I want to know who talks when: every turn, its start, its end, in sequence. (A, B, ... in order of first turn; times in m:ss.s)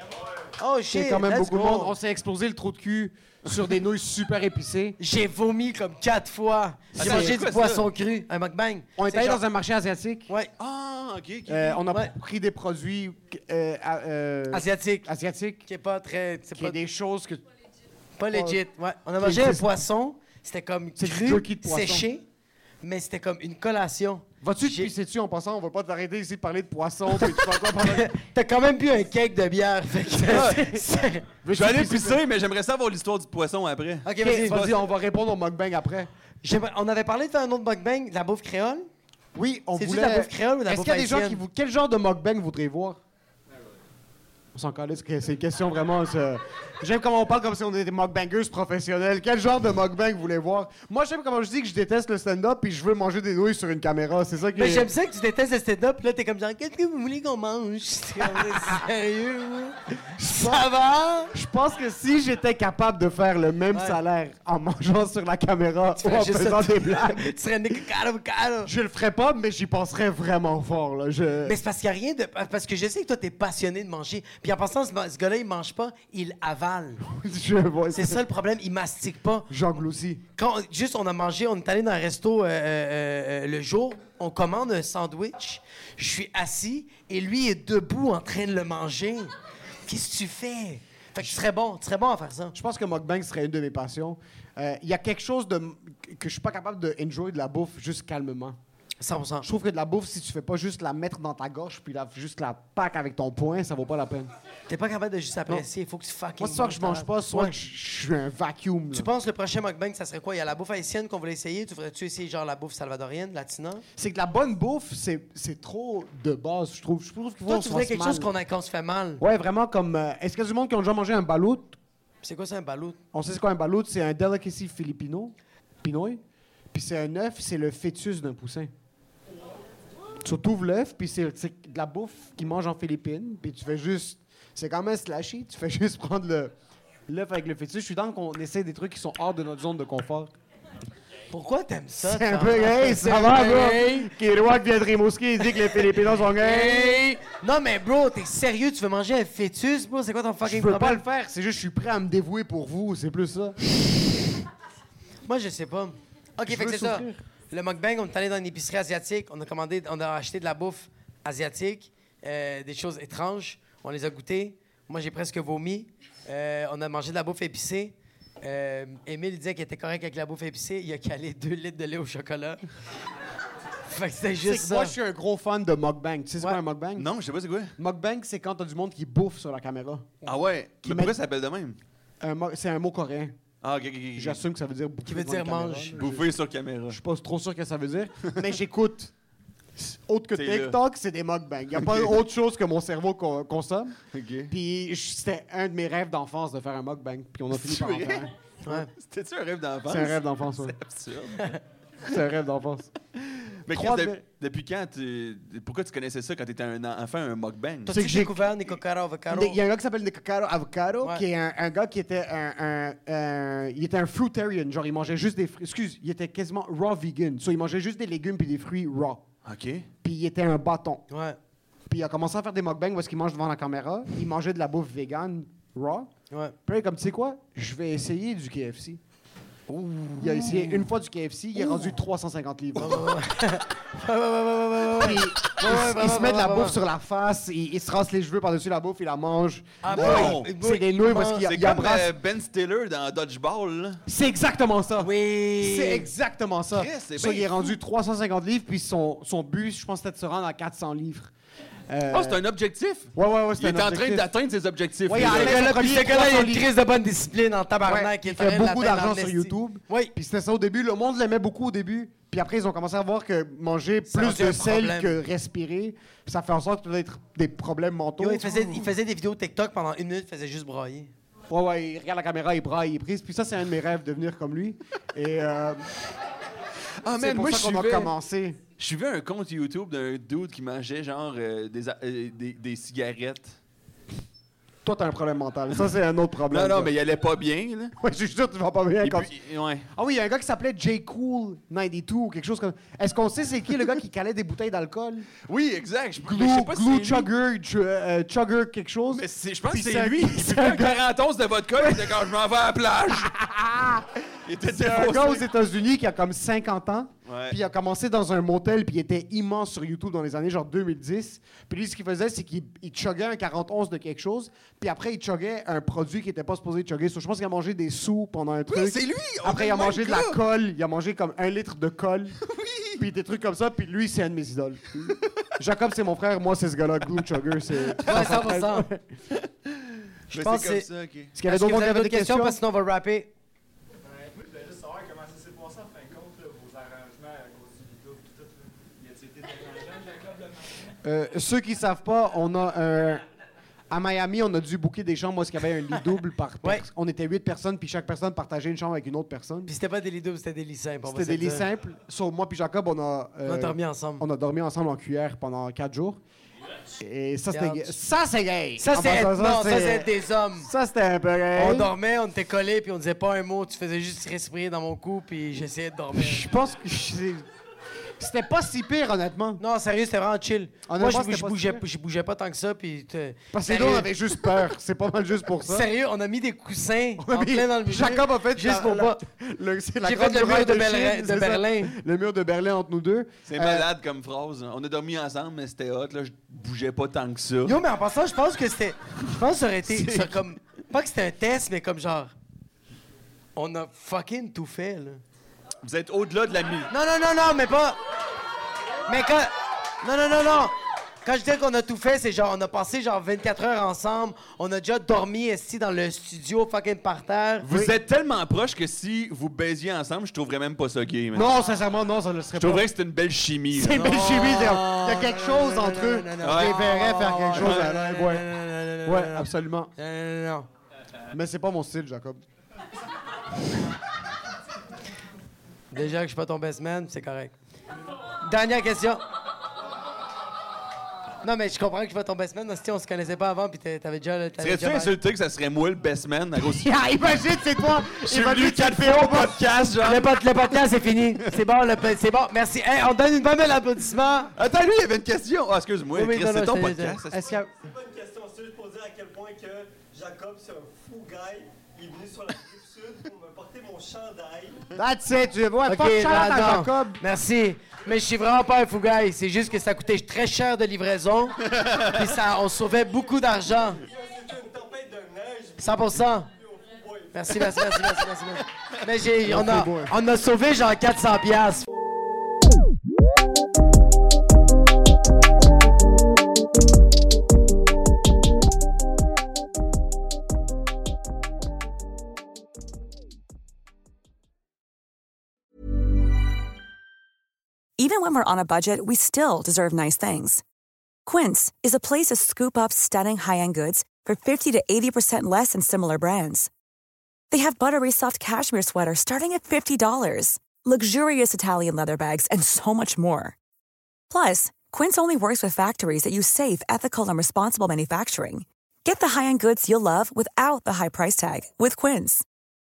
0:00.6-0:02.0 A
0:00.9-0:05.0 B
0:05.0-0:09.4 A
0:07.0-0:07.4 B
0:07.0-0:07.9 C
0:09.0-0:10.3 B
0:10.6-0:11.9 C
0:11.5-0:15.6 B
0:14.5-0:15.1 A
0:15.6-0:16.8 A
0:16.6-0:17.4 B
0:18.2-0:22.2 A
0:18.3-0:18.6 B
0:19.2-0:19.8 B
0:21.0-0:22.1 B
0:22.8-0:24.9 A
0:24.4-0:28.1 B
0:27.2-0:31.3 A
0:30.3-0:30.8 B
0:30.3-0:30.6 C
0:31.4-0:32.2 B
0:31.5-0:34.8 C
0:34.0-0:34.6 A
0:34.2-0:36.1 B
0:36.4-0:38.9 A
0:39.4-0:43.0 B
0:39.8-0:41.4 A
0:44.5-0:54.9 B
0:54.5-1:01.3 A
0:58.2-0:58.8 B
1:00.2-1:00.7 B
1:01.3-1:07.3 B
1:03.7-1:04.0 A
1:06.0-1:08.7 A
1:08.6-1:11.6 B
1:11.4-1:17.0 A
1:17.1-1:18.2 B
1:17.9-1:19.5 A
1:19.5-1:20.2 B
1:20.4-1:29.3 A
1:29.9-1:32.6 A
1:32.5-1:38.6 B
1:39.0-1:39.5 A
1:39.4-1:44.3 B
1:44.7-1:47.6 A
1:46.4-1:49.1 B
1:48.9-1:53.8 A
1:54.0-1:58.3 B
1:57.5-1:59.2 A
1:59.2-2:01.8 B
2:02.2-2:03.0 A
2:03.1-2:06.2 B
2:06.7-2:08.7 B
2:10.2-2:16.5 B
2:17.1-2:20.3 B
2:21.3-2:24.1 A
2:22.0-2:27.0 B
2:25.8-2:31.0 A
2:30.5-2:33.6 B
2:35.3-2:52.6 A
2:36.5-2:37.2 B
2:53.9-2:55.0 A
2:54.4-2:57.1 B
2:57.0-2:57.7 C
2:57.8-3:00.3 B
3:00.2-3:01.8 C
3:00.8-3:01.2 B
3:02.2-3:03.4 B
3:03.6-3:04.4 C
3:04.2-3:06.3 B
3:05.1-3:06.0 A
3:05.9-3:07.0 C
3:06.9-3:09.1 B
3:09.8-3:14.0 B
3:10.3-3:10.8 C
3:11.8-3:12.1 C
3:14.1-3:14.5 C
3:14.5-3:18.3 B
3:17.5-3:21.6 C
3:18.6-3:18.9 A
3:19.9-3:20.8 B
3:22.0-3:22.9 B
3:23.3-3:28.0 C
3:23.7-3:24.2 B
3:27.9-3:29.6 A
3:27.9-3:28.4 B
3:29.3-3:39.2 B
3:39.4-3:39.9 C
3:40.0-3:41.0 B
3:41.1-3:41.4 A
3:41.9-3:46.1 B
3:46.3-3:46.6 A
3:46.7-3:49.0 B
3:49.7-3:50.4 C
3:50.2-3:53.0 B
3:51.6-3:51.9 A
3:52.8-3:56.8 A
3:55.0-4:02.1 B
3:59.8-4:01.4 A
3:59.9-4:00.5 C
4:01.4-4:04.0 C
4:04.1-4:11.3 B
4:05.0-4:06.1 A
4:06.7-4:07.8 C
4:11.9-4:12.4 B
4:12.1-4:15.9 C
4:13.2-4:14.3 B
4:15.1-4:16.7 B
4:15.2-4:20.1 A
4:17.9-4:28.8 B
4:24.1-4:25.2 A
4:28.2-4:31.1 A
4:31.5-4:35.8 B
4:37.0-4:38.1 C
4:37.2-4:38.6 B
4:38.8-4:43.6 C
4:44.8-4:46.9 B
4:46.5-4:47.9 C
4:48.0-4:49.3 B
4:49.0-4:49.9 C
4:49.9-4:55.3 B
4:55.4-4:57.3 C
4:56.2-5:01.0 B
4:59.1-5:03.3 C
5:03.3-5:04.0 B
5:04.4-5:05.5 C
5:04.7-5:22.4 B
5:07.3-5:07.6 C
5:18.7-5:20.4 C
5:22.4-5:23.0 C
5:23.0-5:29.1 B
5:27.9-5:28.4 C
5:28.1-5:28.9 A
5:29.4-5:31.3 C
5:30.3-5:30.9 A
5:31.3-5:32.6 B
5:31.4-5:33.3 A
5:34.4-5:40.3 D
5:41.0-5:43.2 B
5:43.9-5:49.7 B
5:49.7-5:51.7 A
5:51.1-5:56.2 B
5:53.4-5:54.2 A
5:57.0-6:01.9 B
5:57.5-5:57.9 A
5:58.8-6:00.7 A
6:01.6-6:06.4 A
6:06.1-6:07.4 B
6:08.2-6:09.6 B
6:09.6-6:14.1 A
6:10.9-6:11.8 B
6:13.5-6:15.9 B
6:15.6-6:19.2 A
6:17.2-6:23.9 B
6:20.0-6:21.9 A
6:23.5-6:27.8 C
6:27.6-6:32.3 A
6:29.9-6:30.3 C
6:33.6-6:35.2 A
6:35.8-6:36.9 C
6:36.9-6:38.0 A
6:39.1-6:39.5 A
6:40.0-6:40.7 A
6:41.2-6:47.7 A
6:47.6-6:51.6 C
6:51.3-6:52.9 B
6:52.6-6:54.1 C
6:53.7-6:58.5 B
6:53.8-7:00.7 A
6:56.4-6:57.9 C
6:59.0-6:59.9 B
7:01.3-7:02.4 B
7:05.9-7:07.5 A
7:08.4-7:09.2 A
7:11.4-7:15.1 A
7:14.6-7:17.2 C
7:16.6-7:19.6 B
7:18.1-7:20.3 C
7:20.0-7:24.5 A
7:24.6-7:27.5 C
7:26.2-7:27.2 A
7:27.3-7:27.7 B
7:27.4-7:34.9 D
7:35.0-7:37.2 B
7:35.9-7:44.0 A
7:41.7-7:42.2 C
7:43.9-7:47.6 D
7:45.8-7:46.5 A
7:47.3-7:51.9 A
7:49.4-7:50.1 B
8:08.0-8:10.6 E
8:11.3-8:16.7 E
8:17.5-8:23.6 E
8:24.3-8:32.4 E